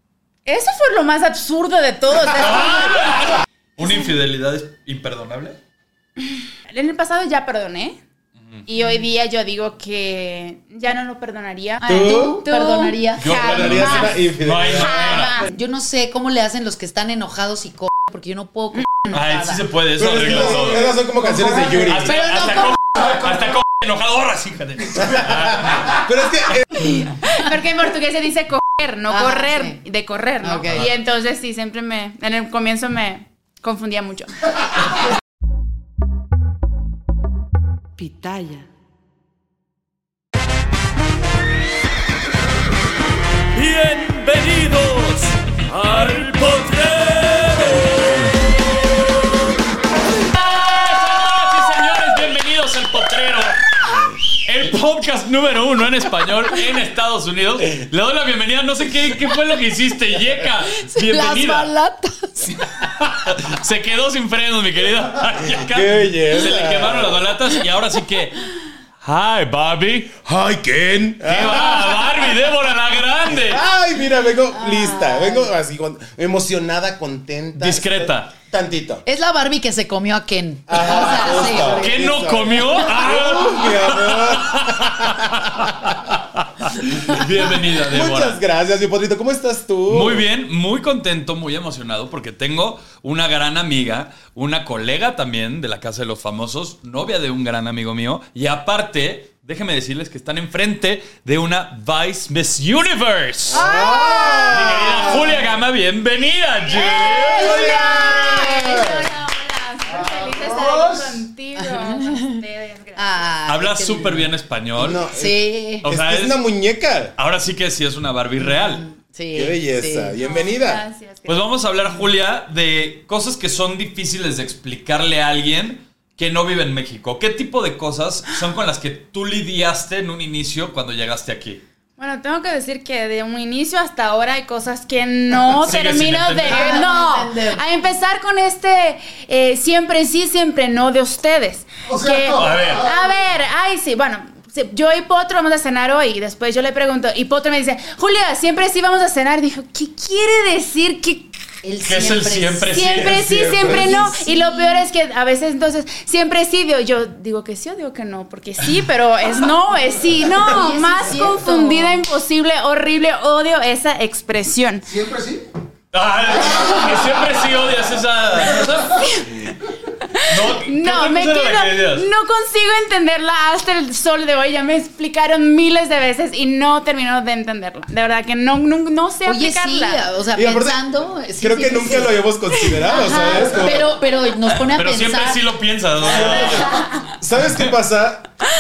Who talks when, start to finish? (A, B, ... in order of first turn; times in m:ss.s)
0:00.4-0:03.3 A
0:02.4-0:05.6 B
0:06.2-0:08.0 A
0:08.4-0:08.6 B
0:08.7-0:14.2 A
0:11.8-0:13.6 C
0:11.9-0:12.4 D
0:13.2-0:15.4 B
0:13.4-0:15.1 D
0:14.8-0:15.5 A
0:15.1-0:19.6 C
0:19.1-0:20.9 B
0:20.0-0:22.2 D
0:21.8-0:26.0 B
0:22.1-0:22.7 C
0:25.0-0:26.9 D
0:27.2-0:34.7 A
0:29.1-0:29.8 C
0:30.4-0:30.8 C
0:38.0-0:38.6 C
0:43.5-0:48.1 B
0:50.2-0:53.6 B
0:54.4-1:01.7 B
1:00.8-1:02.6 C
1:03.0-1:08.4 B
1:05.4-1:07.2 D
1:09.0-1:10.2 B
1:10.2-1:12.3 D
1:11.2-1:13.6 B
1:13.3-1:19.0 D
1:14.5-1:15.5 C
1:17.6-1:18.3 B
1:19.0-1:22.0 C
1:20.7-1:26.1 D
1:21.7-1:28.4 B
1:26.8-1:30.2 D
1:29.9-1:43.7 B
1:43.5-1:45.4 D
1:43.5-1:45.2 A
1:44.4-1:48.0 B
1:46.7-1:53.1 A
1:47.1-1:49.1 D
1:49.9-1:51.2 E
1:51.6-1:52.4 C
1:53.0-1:54.3 C
1:53.4-1:55.0 B
1:54.8-1:57.1 D
1:55.0-1:55.8 C
1:55.8-1:56.4 B
1:57.2-1:58.8 B
1:58.4-2:00.2 C
1:59.3-2:00.8 D
2:00.2-2:01.4 A
2:01.2-2:11.6 B
2:12.0-2:31.4 A
2:15.5-2:16.8 B
2:16.5-2:17.6 C
2:21.8-2:23.0 E
2:22.3-2:22.9 B
2:31.6-2:32.8 C
2:31.8-2:33.8 B
2:32.7-2:44.8 A
2:33.6-2:34.8 C
2:40.3-2:42.0 C
2:44.8-2:45.5 E
2:45.9-2:49.4 B
2:49.0-2:49.4 A
2:50.2-3:00.0 A
2:50.2-2:52.1 B
2:59.2-3:02.2 C
3:00.3-3:00.8 D
3:01.4-3:03.9 D
3:02.8-3:03.2 A
3:02.8-3:05.5 C
3:04.7-3:06.8 B
3:06.1-3:06.6 C
3:06.7-3:07.0 A
3:07.2-3:08.3 D